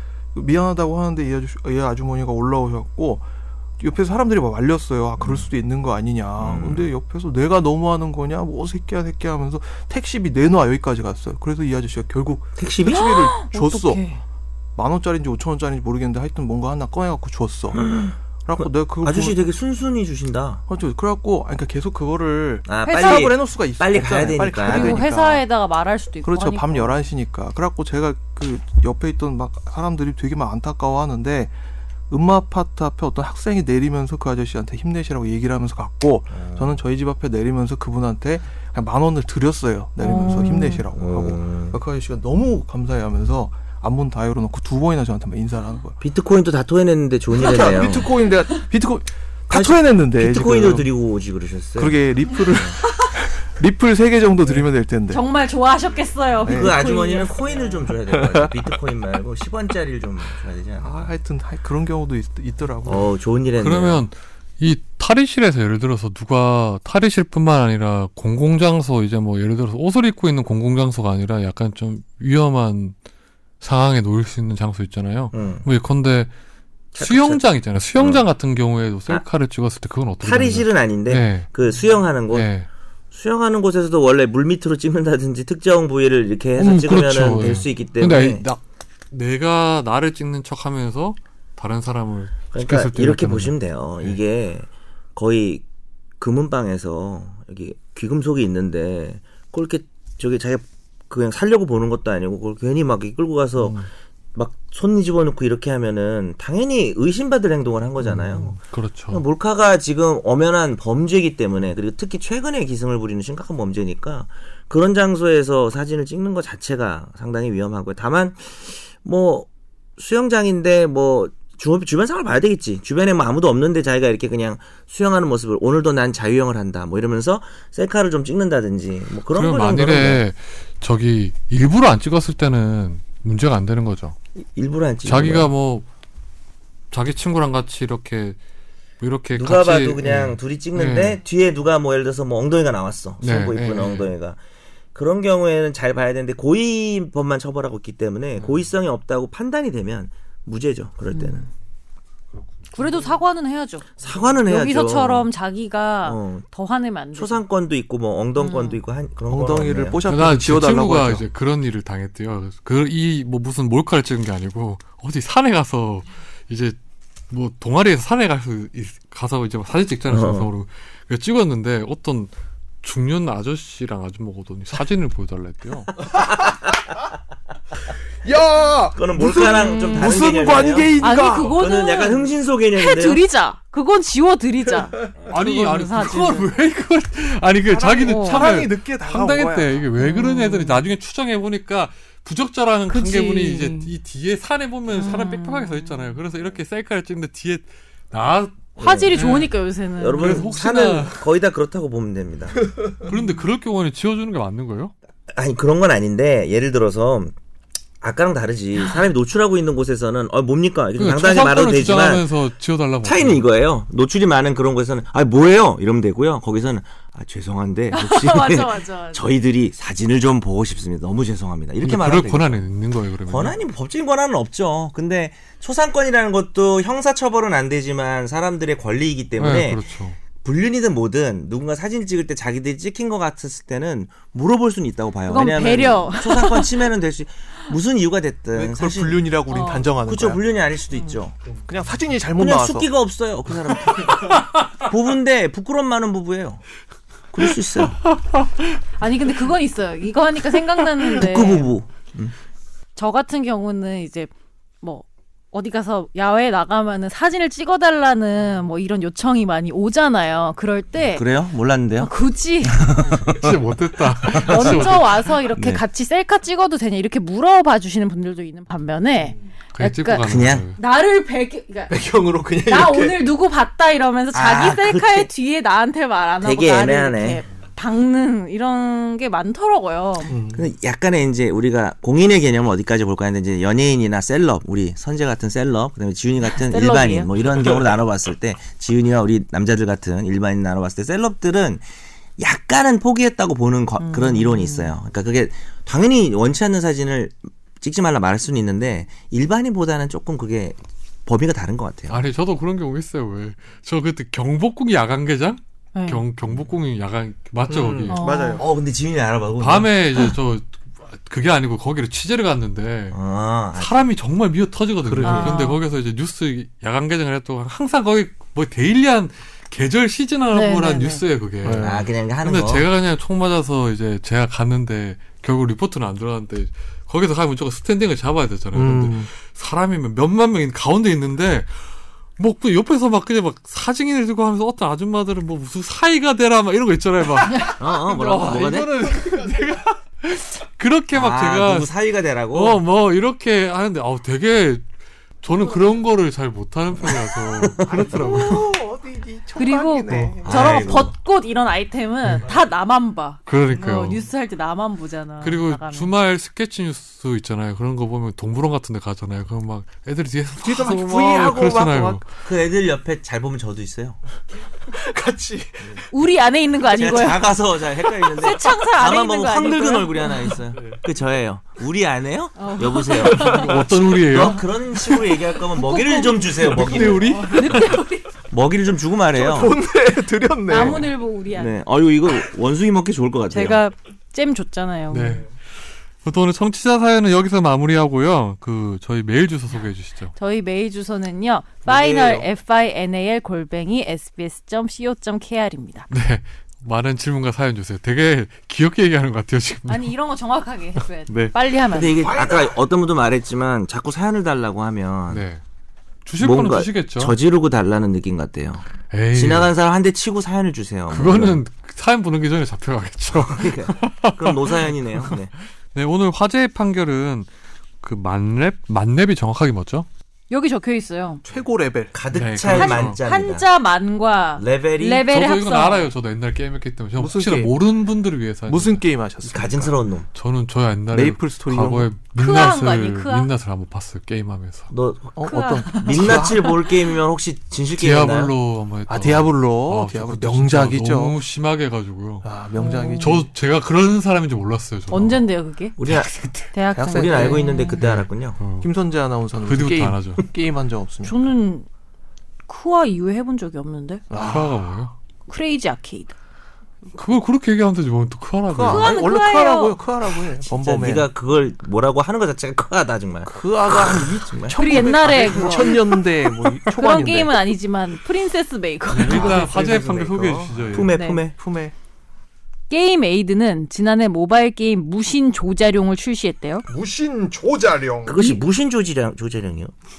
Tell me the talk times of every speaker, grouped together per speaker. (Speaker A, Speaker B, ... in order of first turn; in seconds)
Speaker A: 0.3-3.3, 3.8-14.0, 14.8-17.9, 18.4-19.5, 20.7-25.4, 26.2-31.6, 32.1-46.0, 47.3-50.9, 51.8-55.2, 56.4-56.8, 58.1-58.6, 60.8-63.1, 159.3-161.2, 178.2-181.6, 187.7-189.8, 238.5-240.4, 241.7-242.9, 271.9-273.2, 280.3-280.7, 307.7-308.7, 315.0-315.6, 321.6-322.0, 328.7-329.3, 347.9-350.8, 360.6-362.2, 364.9-366.1, 373.3-373.9, 376.6-377.9, 379.3-381.1, 402.1-402.8, 421.4-422.2, 427.2-427.8, 428.7-430.0, 431.1-432.1, 435.4-436.7, 439.1-441.4, 442.4-443.5, 446.9-447.6, 448.8-451.5, 454.3-454.9, 458.7-461.3, 463.5-467.6, 469.2-471.9, 476.9-478.4
Speaker B: 5.2-5.5, 6.4-6.9, 12.6-13.2, 17.7-20.6, 22.7-25.1, 36.3-36.8, 40.9-41.8, 46.0-48.1, 49.5-52.8, 56.5-61.1, 62.9-64.0, 75.3-75.7, 76.9-77.4, 78.0-78.2, 80.2-82.5, 83.1-88.5, 92.5-95.6, 96.2-108.6, 109.1-130.2, 134.4-135.5, 139.3-144.4, 144.9-151.5, 154.0-155.3, 156.1-156.5, 157.2-160.0, 170.1-170.5, 176.1-176.9, 178.9-183.2, 198.8-199.2, 200.0-202.7, 205.3-207.3, 208.0-212.3, 213.0-222.6, 223.3-229.8, 230.4-239.3, 240.1-241.4, 242.4-246.6, 247.3-248.0, 251.0-252.3, 261.0-263.6, 264.2-264.9, 265.6-265.8, 270.2-270.7, 274.3-275.3, 276.4-277.4, 280.5-291.9, 292.4-302.2, 308.6-309.9, 313.1-314.0, 321.8-322.9, 337.8-338.9, 341.1-342.8, 347.0-348.5, 350.1-351.1, 362.4-364.2, 366.9-377.4, 378.5-379.8, 380.7-383.8, 391.9-392.5, 401.9-405.4, 406.4-411.6, 413.3-415.5, 422.1-423.7, 424.6-425.3, 429.5-430.3, 434.9-438.5, 446.0-446.3, 447.1-448.6, 460.6-465.9, 470.9-471.6, 478.2-479.9
Speaker C: 12.9-14.2, 22.9-23.3, 24.6-27.0, 40.0-40.9, 55.1-57.9, 152.7-153.9, 154.4-157.4, 158.4-158.8, 179.7-180.2, 181.0-186.5, 187.8-188.5, 190.0-190.8, 192.9-193.9, 194.9-196.1, 198.8-200.5, 217.9-219.3, 235.3-236.8, 239.5-239.9, 249.0-251.7, 253.0-254.3, 254.8-261.3, 262.0-262.9, 264.3-271.9, 272.6-280.3, 286.6-287.3, 294.0-294.9, 305.9-306.2, 308.1-308.6, 315.2-315.8, 320.5-321.2, 349.6-356.1, 366.1-370.5, 372.6-373.8, 375.6-378.3, 380.7-381.8, 383.5-385.4, 390.4-396.1, 399.9-402.2, 420.5-421.4, 422.7-426.1, 432.4-433.5, 435.5-436.7, 442.8-443.4, 445.1-446.0, 446.7-448.0, 451.2-451.9, 452.7-454.2, 455.5-456.4, 458.9-460.0, 464.7-469.7, 471.1-471.4, 472.9-476.9
Speaker D: 63.6-73.0, 73.6-76.3, 77.0-81.5, 82.3-82.7, 86.6-88.6, 89.1-94.2, 103.6-103.9, 108.0-109.2, 129.3-134.2, 135.1-135.9, 136.9-138.4, 139.0-141.2, 143.2-144.1, 160.1-166.8, 167.3-172.3, 172.8-175.9, 185.3-199.5, 200.1-201.2, 203.0-204.9, 211.0-213.4, 221.8-223.6, 229.4-230.2, 263.2-265.3, 269.7-270.8, 302.1-308.3, 309.6-313.2, 313.7-341.9, 342.5-344.9, 345.4-348.7, 353.5-354.3, 355.4-362.2, 373.4-374.7, 385.1-385.7, 386.2-390.3, 396.1-400.1, 401.3-401.6, 405.3-405.6, 406.2-407.4, 409.1-409.7, 411.1-415.4, 415.9-417.5, 418.0-420.1, 422.3-423.2, 425.3-429.0, 430.3-434.9, 438.0-442.5, 443.2-445.4, 446.0-446.7, 448.0-448.9, 449.6-450.4, 454.4-455.1, 457.1-459.2, 469.1-471.1